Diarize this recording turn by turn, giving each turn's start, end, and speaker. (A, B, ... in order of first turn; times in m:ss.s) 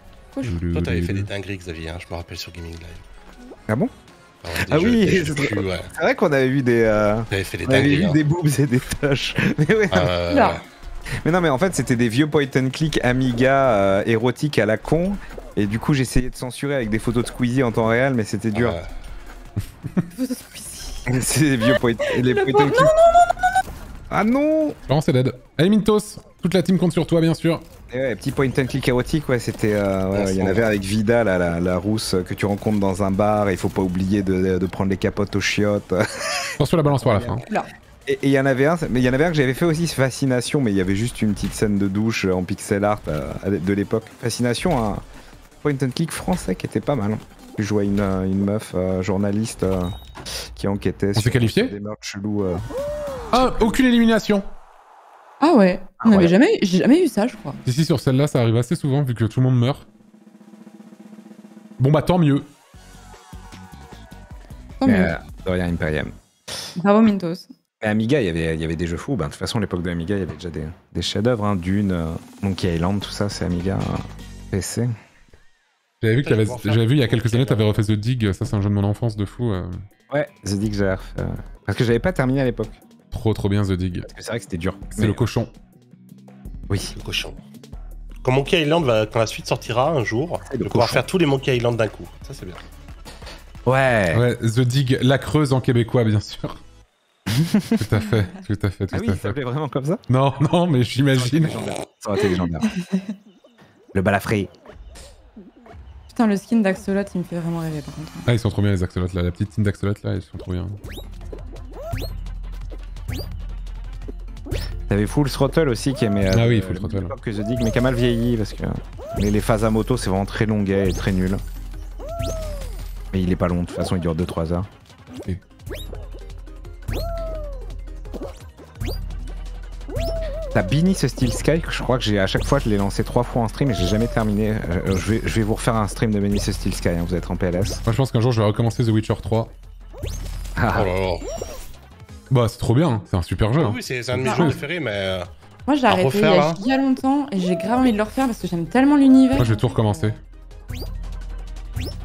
0:00.4-0:01.3 A
0:00.4-0:03.0 B
0:04.4-0:05.9 B
0:04.6-0:10.1 C
0:07.3-0:08.2 B
0:09.9-0:10.6 B
0:10.3-0:10.6 D
0:11.2-0:18.8 C
0:18.5-0:18.8 B
0:20.1-0:21.0 D
0:21.0-0:22.9 C
0:22.0-0:23.4 D
0:24.1-0:24.8 C
0:24.9-0:27.6 A
0:27.9-0:37.4 C
0:30.1-0:30.6 B
0:36.6-0:37.4 A
0:38.0-0:45.0 C
0:45.6-0:49.9 C
0:50.5-0:52.6 C
0:51.2-0:51.7 A
0:53.3-0:53.8 C
0:53.3-0:54.5 A
0:55.4-0:57.6 D
0:56.0-0:56.3 C
0:57.6-0:59.8 A
1:01.8-1:02.5 A
1:04.8-1:05.1 D
1:04.8-1:06.1 C
1:06.8-1:07.5 D
1:07.8-1:14.9 C
1:16.0-1:19.8 A
1:16.2-1:17.7 B
1:20.1-1:22.8 C
1:23.1-1:24.1 A
1:24.0-1:25.3 C
1:25.0-1:25.5 A
1:26.7-1:26.9 C
1:26.9-1:27.4 B
1:28.2-1:32.6 B
1:30.4-1:31.0 C
1:33.6-1:34.2 C
1:34.1-1:36.6 A
1:37.3-1:37.8 C
1:37.8-1:39.4 A
1:38.9-1:40.0 C
1:40.1-1:41.7 A
1:41.1-1:42.7 C
1:42.6-1:43.1 D
1:43.9-1:44.5 C
1:46.1-1:48.3 D
1:48.3-1:50.8 A
1:54.9-2:01.4 C
1:56.3-1:57.1 A
2:03.1-2:04.7 C
2:10.5-2:17.8 C
2:17.8-2:19.5 A
2:20.6-2:20.9 C
2:20.7-2:21.2 B
2:22.3-2:24.6 A
2:23.6-2:25.3 B
2:24.2-2:24.5 D
2:25.7-2:30.2 D
2:25.9-2:26.6 B
2:29.3-2:30.2 A